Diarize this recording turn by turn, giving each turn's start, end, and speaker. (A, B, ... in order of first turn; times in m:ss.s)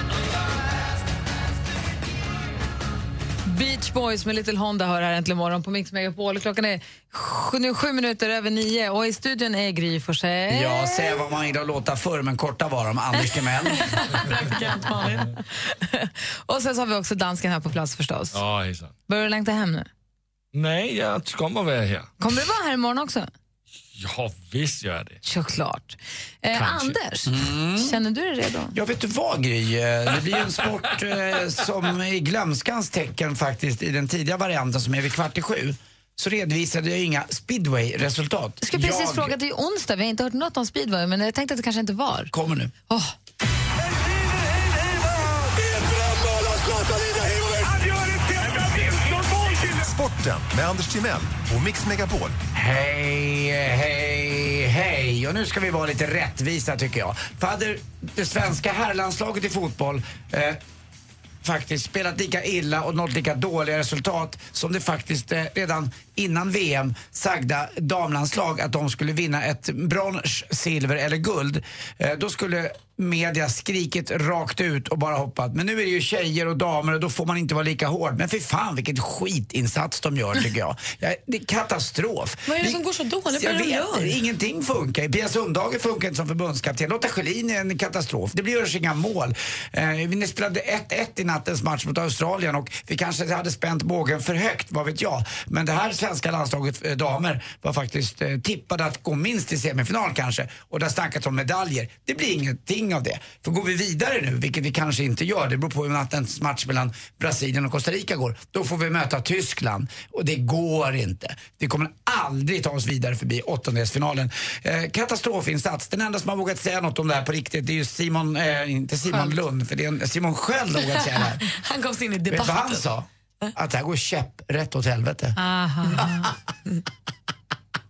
0:03.5-0:11.2 A
0:10.5-0:13.9 B
0:13.7-0:15.4 C
0:15.8-0:18.4 A
0:18.3-0:18.9 D
0:19.1-0:19.9 A
0:20.5-0:22.1 D
0:22.2-0:23.3 A
0:23.9-0:25.2 D
0:25.2-0:28.8 A
0:26.6-0:27.0 D
0:27.3-0:28.0 B
0:28.7-0:39.4 B
0:38.6-0:42.3 A
0:42.3-0:42.7 B
0:46.2-0:52.4 E
0:52.6-1:00.6 B
1:01.4-2:01.4 B
1:22.5-1:24.2 C
2:00.9-2:02.9 C
2:02.3-2:05.4 B
2:05.4-2:06.3 A